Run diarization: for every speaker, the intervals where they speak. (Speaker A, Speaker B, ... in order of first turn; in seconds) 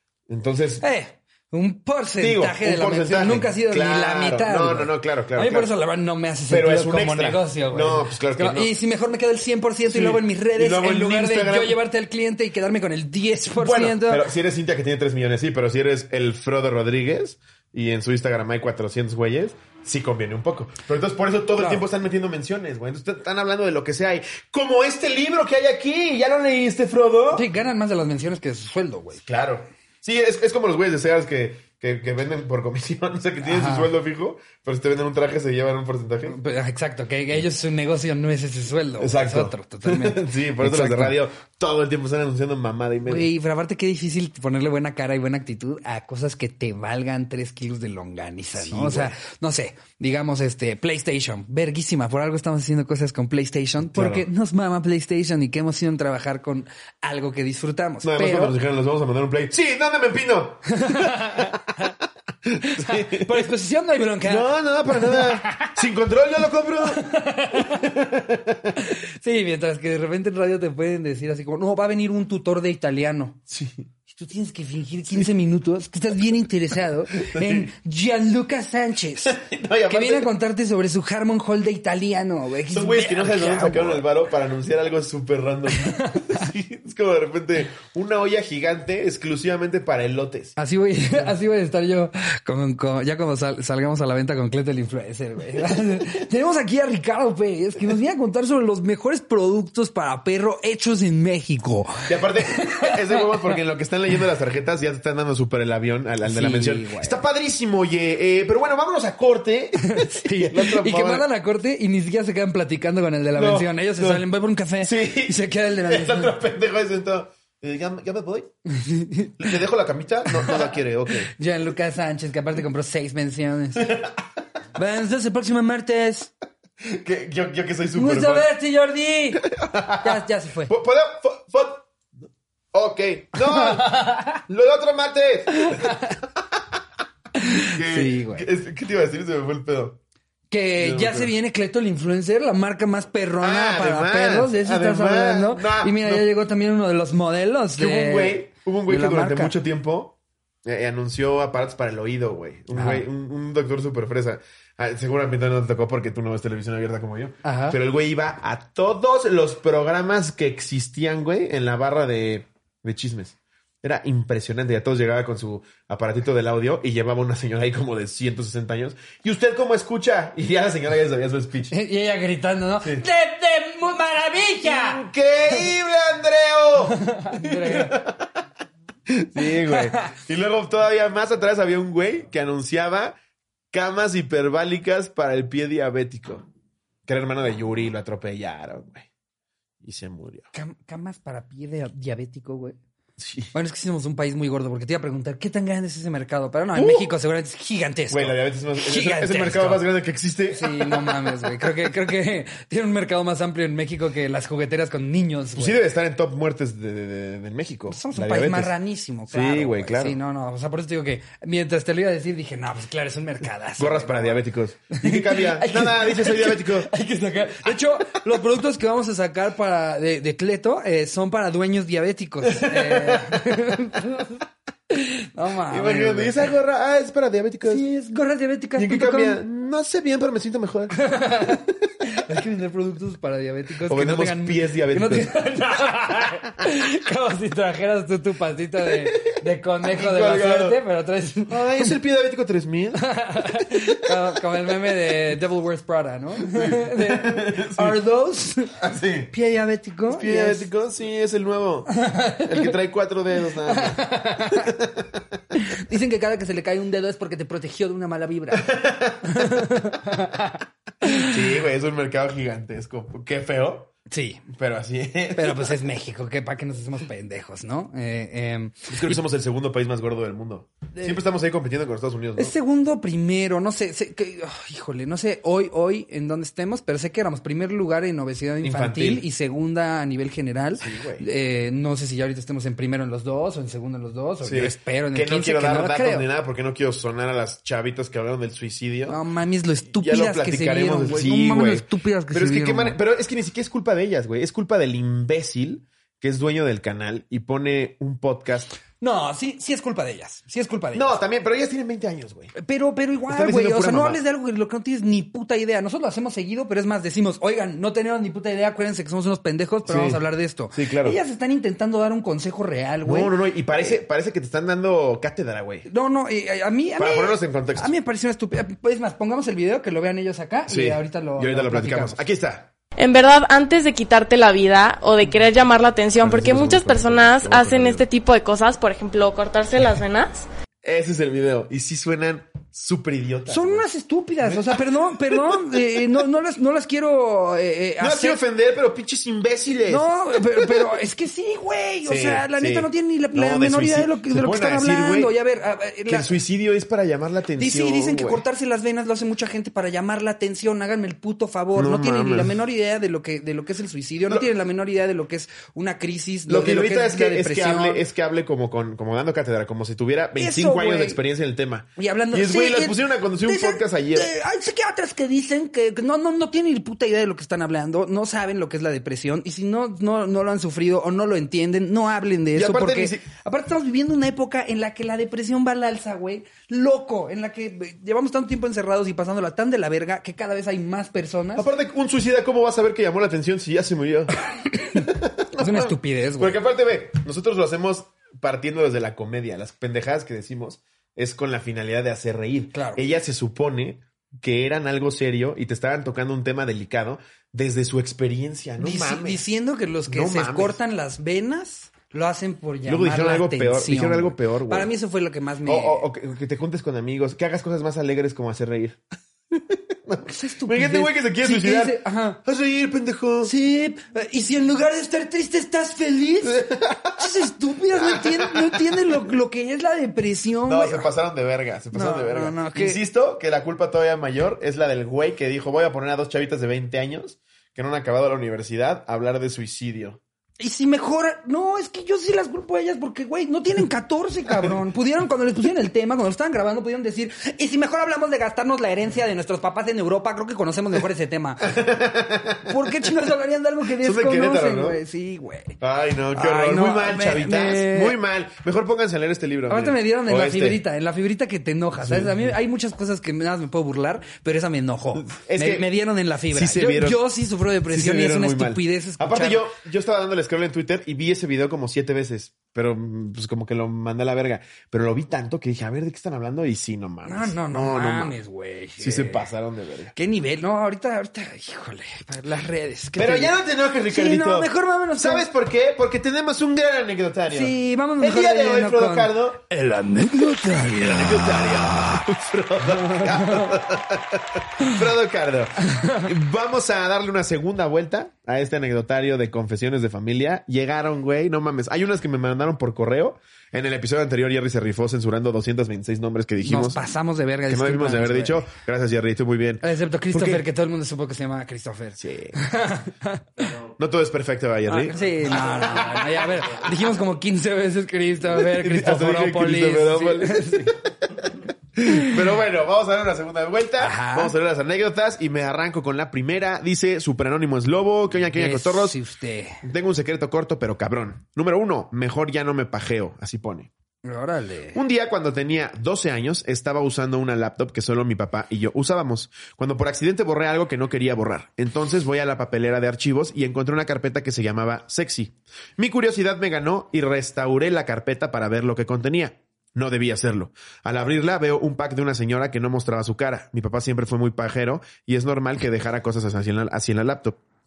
Speaker A: 0.3-0.8, 2.2-5.7, 6.5-8.7, 9.8-11.8, 13.5-27.5, 29.1-36.4, 39.0-43.3, 48.5-49.1, 53.9-54.2, 58.0-61.5, 62.4-63.4, 64.2-67.0, 67.5-68.8, 73.5-73.9, 77.2-77.7, 79.2-80.3, 82.7-90.6, 102.1-111.2, 113.3-114.2, 114.8-118.5, 119.4-121.3, 123.8-124.1, 126.8-128.5, 129.4-136.0, 137.7-140.0, 140.8-141.3, 143.4-146.2, 147.8-171.7, 172.8-173.1, 174.6-178.4, 179.1-183.2, 183.7-186.5, 187.1-189.1, 189.8-190.5, 193.2-193.5, 196.8-197.1, 198.1-201.4, 205.6-208.7, 209.3-210.2, 213.8-216.9, 217.7-218.2, 222.4-223.4, 225.7-227.9, 228.8-230.9, 233.9-235.3, 239.0-240.8, 241.5-243.1, 243.7-244.4, 246.4-248.0, 248.8-249.3, 250.1-255.2, 258.5-259.6, 261.2-263.9, 264.5-265.8, 268.9-272.6, 278.6-279.2, 280.8-281.2, 284.4-289.2, 289.9-298.7, 300.9-302.5, 303.3-304.2, 309.9-310.2, 310.7-311.2, 313.1-315.9, 317.0-317.9, 320.7-322.7, 326.2-328.1, 330.8-333.9, 334.4-336.0, 338.0-340.9, 342.0-345.3, 346.1-348.4, 351.8-352.6, 356.5-364.3, 372.6-373.2, 381.6-384.3, 384.9-399.4, 400.1-400.8, 402.9-404.9, 405.7-409.0, 409.5-413.5, 416.4-419.2, 420.7-430.2, 441.6-443.1, 444.0-445.0, 445.8-450.8, 452.0-452.5, 455.1-455.9, 456.5-457.2, 457.9-468.4, 469.0-470.1, 473.2-479.6, 481.0-497.0, 497.7-500.6, 502.2-502.6, 504.0-506.9, 508.5-519.2, 519.8-523.9, 524.9-547.6
Speaker B: 0.8-14.3, 21.6-21.9, 27.3-29.2, 33.4-33.9, 36.3-41.2, 43.0-58.5, 60.7-61.6, 62.6-65.8, 66.8-67.9, 68.8-73.4, 74.1-84.1, 85.7-86.5, 90.6-103.5, 106.2-107.2, 109.8-116.3, 118.7-119.5, 120.3-124.1, 124.8-126.3, 127.9-129.4, 130.0-130.7, 133.4-134.4, 135.6-136.2, 137.4-138.5, 140.5-149.5, 152.7-153.1, 157.4-157.8, 171.7-175.0, 176.9-178.0, 179.5-180.1, 190.5-192.8, 193.5-199.8, 200.5-205.8, 207.9-214.4, 214.9-226.5, 227.7-229.4, 230.9-241.9, 243.0-248.7, 249.3-250.7, 251.9-252.7, 253.7-254.7, 255.6-258.7, 259.2-261.4, 264.1-264.4, 265.4-269.2, 270.9-271.2, 272.4-286.3, 289.1-293.0, 299.0-301.2, 302.6-313.3, 315.9-322.2, 333.5-338.4, 339.9-346.3, 347.6-358.0, 360.4-361.2, 362.0-381.7, 384.7-386.6, 392.7-393.0, 398.8-406.1, 410.2-412.4, 413.4-421.1, 421.9-423.0, 430.6-441.8, 442.7-445.8, 446.3-448.2, 449.7-459.7, 467.2-469.5, 470.1-473.6, 474.1-475.5, 477.5-482.2, 482.9-483.8, 485.8-486.3, 496.6-498.6, 499.8-503.4, 504.9-511.0, 512.0-512.3, 514.0-514.5, 518.5-519.8, 524.2-525.0
Speaker C: 323.0-330.5